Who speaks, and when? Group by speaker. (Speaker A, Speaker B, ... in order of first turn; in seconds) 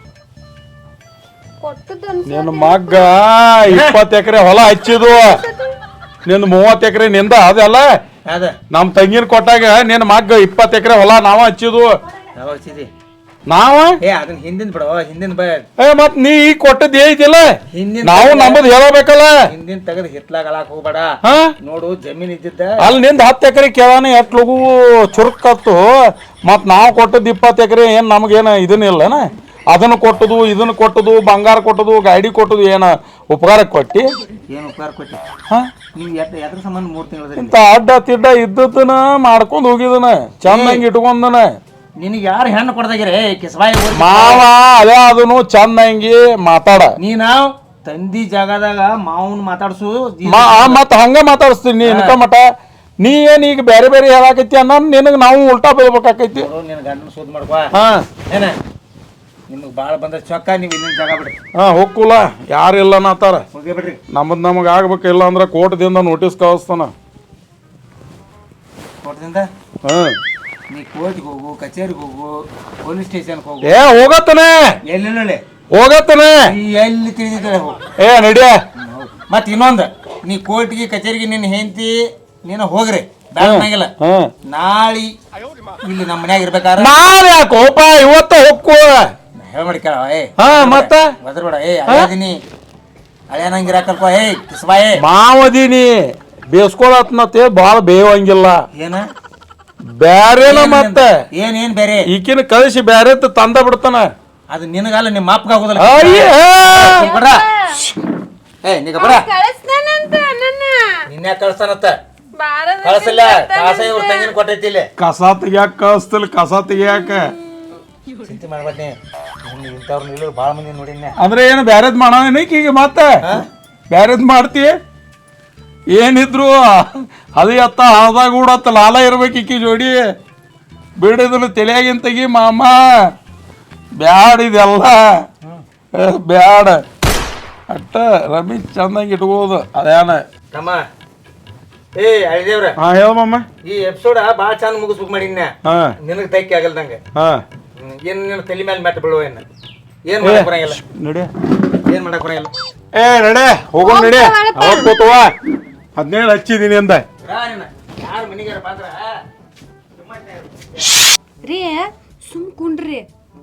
Speaker A: 1.6-3.1, 4.7-5.7, 106.8-107.9, 108.9-111.0, 112.4-114.3, 153.8-154.9, 161.4-163.0
Speaker B: 2.3-5.4, 6.2-7.9, 8.7-12.0, 13.5-14.0, 15.8-19.4, 21.2-21.5, 22.8-34.1, 37.4-41.6, 43.9-47.0, 50.2-56.5, 57.7-58.0, 61.5-63.4, 64.1-66.9, 69.8-70.2, 73.6-74.8, 75.7-76.5, 78.0-78.6, 83.4-84.3, 86.8-89.1, 90.4-91.1, 95.0-96.0, 96.5-98.6, 99.9-101.1, 102.1-104.1, 105.8-107.1, 115.0-117.3, 121.2-123.2, 123.9-124.7, 125.9-130.0, 131.0-133.1, 134.0-135.2, 135.9-136.8, 137.7-140.2, 142.8-143.5, 145.6-145.9, 147.1-147.4, 150.2-151.3, 152.9-155.3, 155.9-157.1
Speaker C: 3.7-4.0, 8.3-8.5, 12.4-12.9, 14.0-15.7, 17.7-18.6, 19.5-22.9, 34.5-35.2, 35.9-37.5, 40.5-40.8, 42.0-44.4, 47.0-50.8, 51.8-52.1, 56.3-57.7, 58.3-58.5, 59.5-61.3, 63.5-64.0, 69.0-69.5, 70.7-73.8, 74.9-75.4, 76.5-77.8, 78.8-83.9, 84.5-85.1, 85.8-86.9, 89.3-92.4, 93.3-95.0, 98.7-99.0, 100.4-102.1, 104.5-107.4, 108.6-109.3, 111.1-112.0, 112.8-114.9, 118.2-121.2, 140.5-140.8, 142.0-142.8, 143.6-147.0, 147.8-149.4, 150.1-150.8, 151.8-152.5, 157.2-159.1